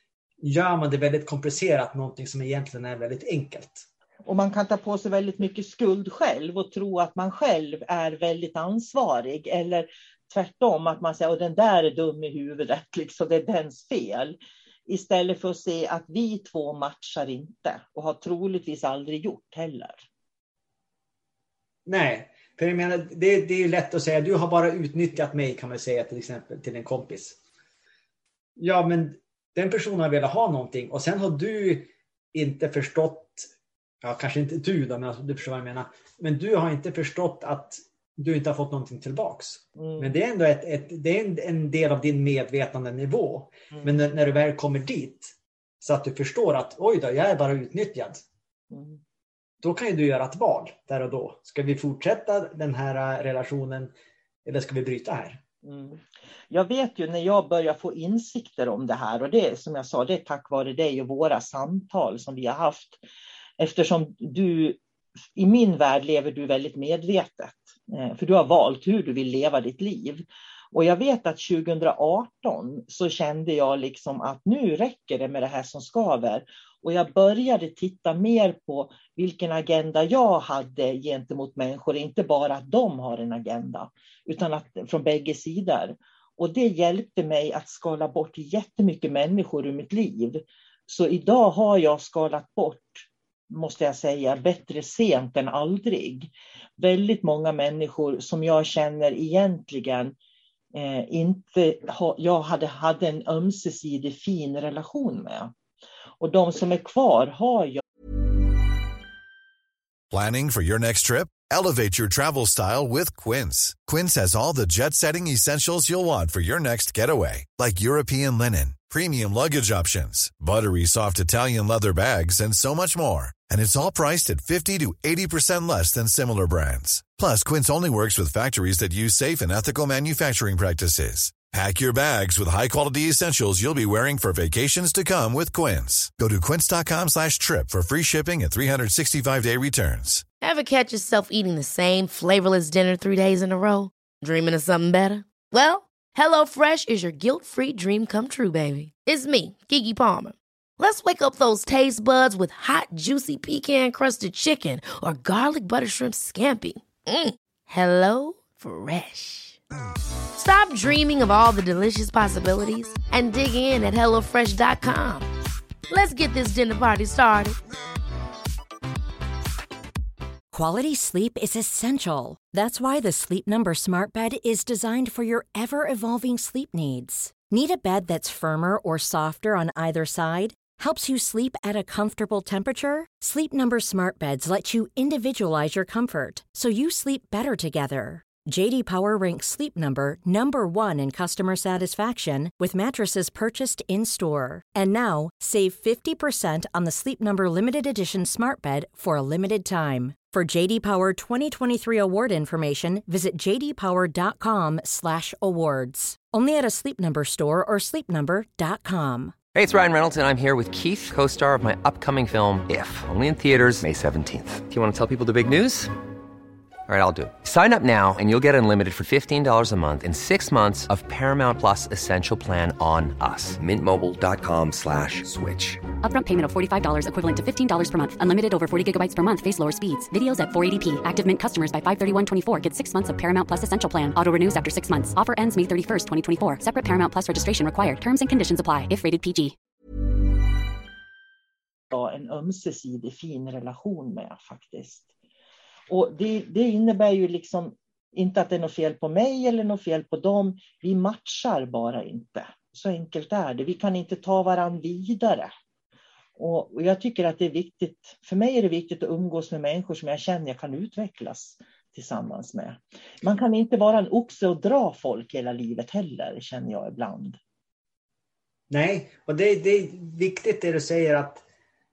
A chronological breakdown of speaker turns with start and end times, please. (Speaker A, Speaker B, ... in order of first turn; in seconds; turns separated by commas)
Speaker A: 0.4-3.9, Speaker B: 4.3-14.4, Speaker B: 14.9-20.1, Speaker A: 21.9-27.4, Speaker A: 28.6-33.5, Speaker A: 34.0-48.2, Speaker B: 39.8-40.1, Speaker B: 48.7-49.0, Speaker A: 49.6-53.9, Speaker A: 54.5-55.4, Speaker B: 55.6-63.0, Speaker B: 63.6-64.8, Speaker B: 65.4-100.2, Speaker B: 100.7-105.5, Speaker B: 106.2-107.8, Speaker C: 110.1-140.2, Speaker D: 140.4-159.6, Speaker D: 160.4-165.3, Speaker D: 165.9-167.6, Speaker E: 170.5-209.4, Speaker F: 209.5-215.9, Speaker F: 216.9-225.9, Speaker G: 226.0-239.6, Speaker B: 241.9-245.1, Speaker B: 245.9-255.5, Speaker B: 256.4-267.4, Speaker A: 268.7-271.4